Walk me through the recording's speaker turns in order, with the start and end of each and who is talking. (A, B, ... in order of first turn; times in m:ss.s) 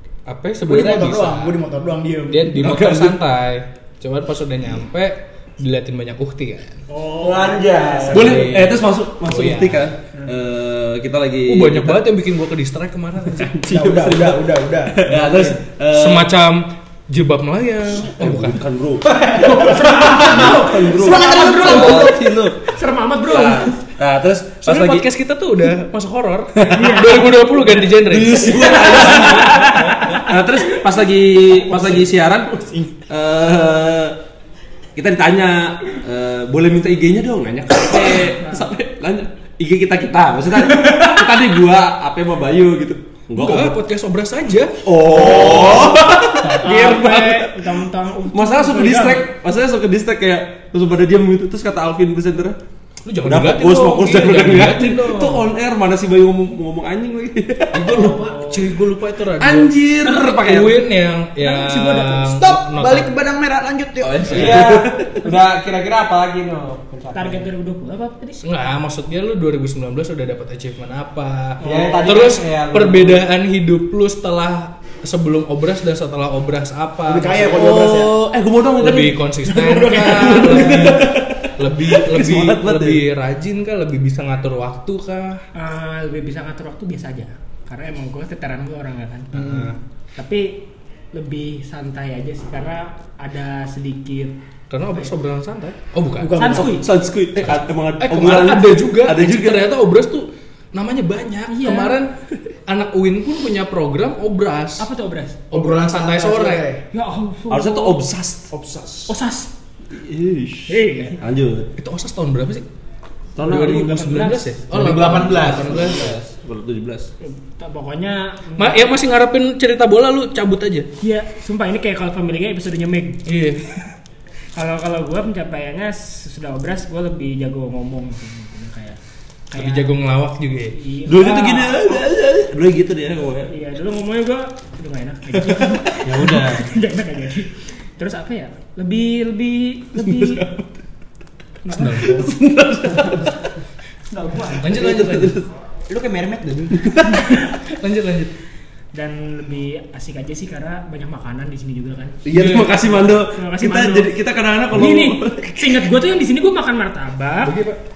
0:00.2-0:01.6 A
0:00.6-0:02.6 B
0:02.3-0:06.8 A
0:02.6-0:03.2 C
0:06.9-0:08.3 D
0:07.2-0:08.4 E
0:07.3-0:08.1 B
0:08.1-0:09.9 A
0:08.1-0:12.0 C
0:11.4-0:13.6 A
0:13.3-0:16.3 C
0:13.6-0:15.6 B
0:15.9-0:18.6 A
0:18.1-0:19.1 C
0:19.0-0:20.7 E
0:19.4-0:23.7 D
0:20.1-0:22.6 C
0:20.9-0:22.3 B
0:23.2-0:25.1 C
0:24.6-0:29.8 A
0:26.6-0:27.0 C
0:26.7-0:27.6 D
0:27.9-0:32.5 C
0:28.4-0:30.2 D
0:31.6-0:33.0 B
0:33.1-0:34.2 C
0:35.0-0:43.8 C
0:38.2-0:38.7 D
0:43.4-0:45.4 A
0:44.8-0:47.5 C
0:45.3-0:45.9 D
0:46.4-0:47.2 A
0:46.5-0:49.3 D
0:48.3-0:52.6 C
0:53.0-0:55.5 A
0:53.2-0:58.2 C
0:57.7-1:03.1 A
0:57.9-0:58.7 D
0:59.4-1:00.8 C
1:00.0-1:00.3 D
1:01.4-1:02.3 D
1:02.3-1:04.7 B
1:04.0-1:05.2 C
1:04.3-1:07.5 E
1:07.1-1:08.5 D
1:08.4-1:17.6 A
1:11.6-1:12.1 D
1:11.6-1:13.2 E
1:17.0-1:18.1 B
1:17.4-1:23.0 C
1:18.8-1:25.4 A
1:19.6-1:21.0 D
1:25.5-1:34.4 D
1:29.3-1:29.7 B
1:29.3-1:29.7 A
1:34.7-1:36.5 A
1:36.2-1:36.8 B
1:36.3-1:36.8 D
1:36.5-1:39.7 C
1:37.4-1:42.1 A
1:41.5-1:42.0 D
1:42.7-1:44.9 A
1:44.8-1:45.4 D
1:45.5-1:46.7 A
1:45.5-1:46.8 B
1:46.9-1:48.0 D
1:47.5-1:48.5 C
1:48.5-1:49.0 B
1:49.1-1:49.5 D
1:49.9-1:51.7 C
1:50.7-1:51.2 D
1:51.8-1:52.6 A
1:53.4-1:54.1 C
1:53.4-1:56.1 A
1:53.6-1:54.5 D
1:54.7-1:55.8 E
1:55.2-1:57.1 C
1:57.2-1:58.8 D
1:58.6-2:00.9 A
2:01.0-2:03.2 D
2:03.2-2:03.8 A
2:04.5-2:09.0 D
2:09.5-2:09.9 D
2:09.5-2:10.8 A
2:10.7-2:12.0 D
2:11.1-2:13.5 C
2:13.5-2:20.4 D
2:15.5-2:15.8 C
2:16.0-2:16.7 E
2:20.0-2:20.7 C
2:21.6-2:22.3 D
2:21.7-2:22.3 A
2:22.0-2:23.4 C
2:24.1-2:24.6 B
2:24.6-2:25.4 A
2:24.6-2:25.5 C
2:25.9-2:26.9 B
2:26.8-2:27.2 C
2:27.3-2:28.3 A
2:28.9-2:32.2 D
2:32.2-2:35.8 C
2:32.3-2:32.8 A
2:33.0-2:34.1 D
2:34.7-2:37.6 D
2:37.4-2:37.8 A